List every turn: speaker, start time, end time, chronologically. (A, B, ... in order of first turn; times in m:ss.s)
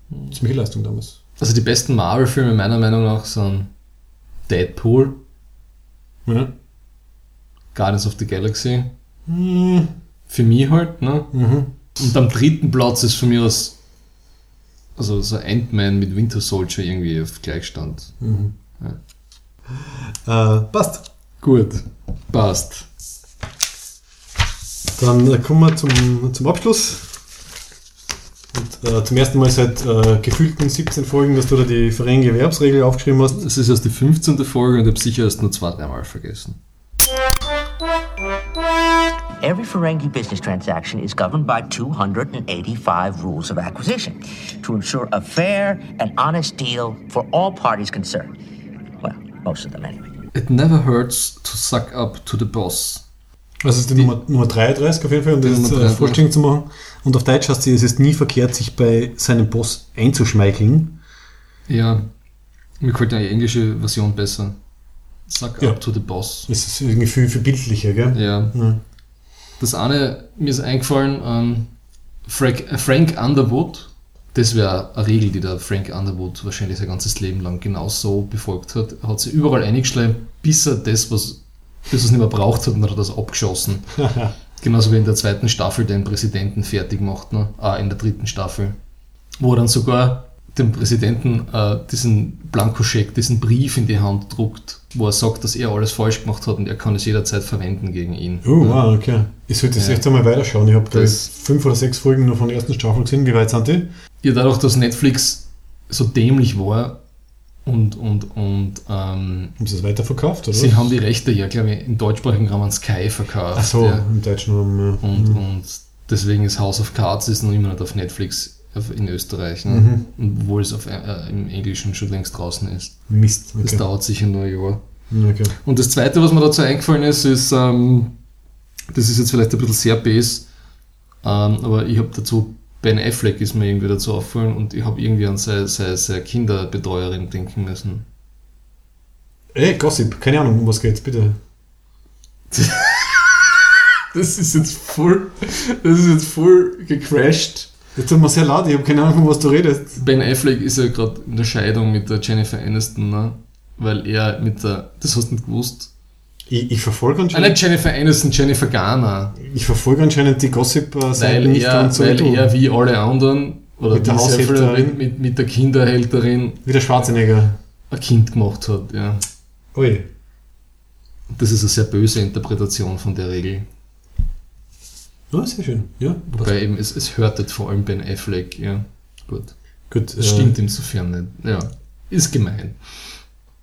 0:00.3-0:01.2 A
0:01.4-0:03.7 B
0:04.5-0:05.2 B
0:07.7-0:08.9 B
0:09.3-0:09.9 A
0:10.3-0:11.3 B
0:11.3-0:11.8 A
0:12.0-0:13.8 B
0:15.0-0:18.2 B
0:18.2-0:18.5 A
0:20.2-0:21.1 A
0:21.4-0:22.9 B
0:25.0-0:27.2 A
0:28.5-0:33.4 A
0:33.3-0:36.6 B
0:39.4-0:48.3 C
0:49.0-0:50.0 C
0:50.3-0:53.0 B
0:53.6-1:01.0 A
0:55.4-0:56.2 B
1:01.7-1:02.1 B
1:02.8-1:04.6 B
1:05.3-1:06.5 B
1:06.5-1:08.8 A
1:08.1-1:08.6 B
1:09.6-1:11.7 B
1:12.3-1:24.0 B
1:24.0-1:24.3 A
1:24.6-1:28.8 B
1:29.4-1:38.8 B
1:38.4-1:43.9 A
1:39.8-1:40.0 B
1:40.9-1:41.3 B
1:44.2-1:47.0 B
1:47.6-1:49.5 B
1:49.6-1:50.9 A
1:50.5-1:54.1 B
1:53.5-1:55.4 A
1:55.0-2:03.0 B
1:59.7-2:00.0 A
2:03.1-2:03.8 A
2:03.6-2:04.8 B
2:05.1-2:05.5 A
2:05.6-2:08.1 B
2:08.9-2:10.5 B
2:11.2-2:18.0 B
2:19.5-2:21.4 A
2:22.5-2:23.4 B
2:24.1-2:27.7 B
2:28.0-2:30.0 A
2:30.0-2:35.9 B
2:36.5-2:37.6 A
2:37.3-2:39.4 B
2:39.4-2:42.5 A
2:41.2-2:46.6 B
2:43.9-2:45.0 A
2:46.6-2:47.6 A
2:47.9-2:49.2 B
2:49.7-2:50.1 A
2:51.3-2:53.7 B
2:55.3-2:56.6 A
2:56.3-2:59.6 B
2:59.9-3:00.6 A
3:00.2-3:03.0 B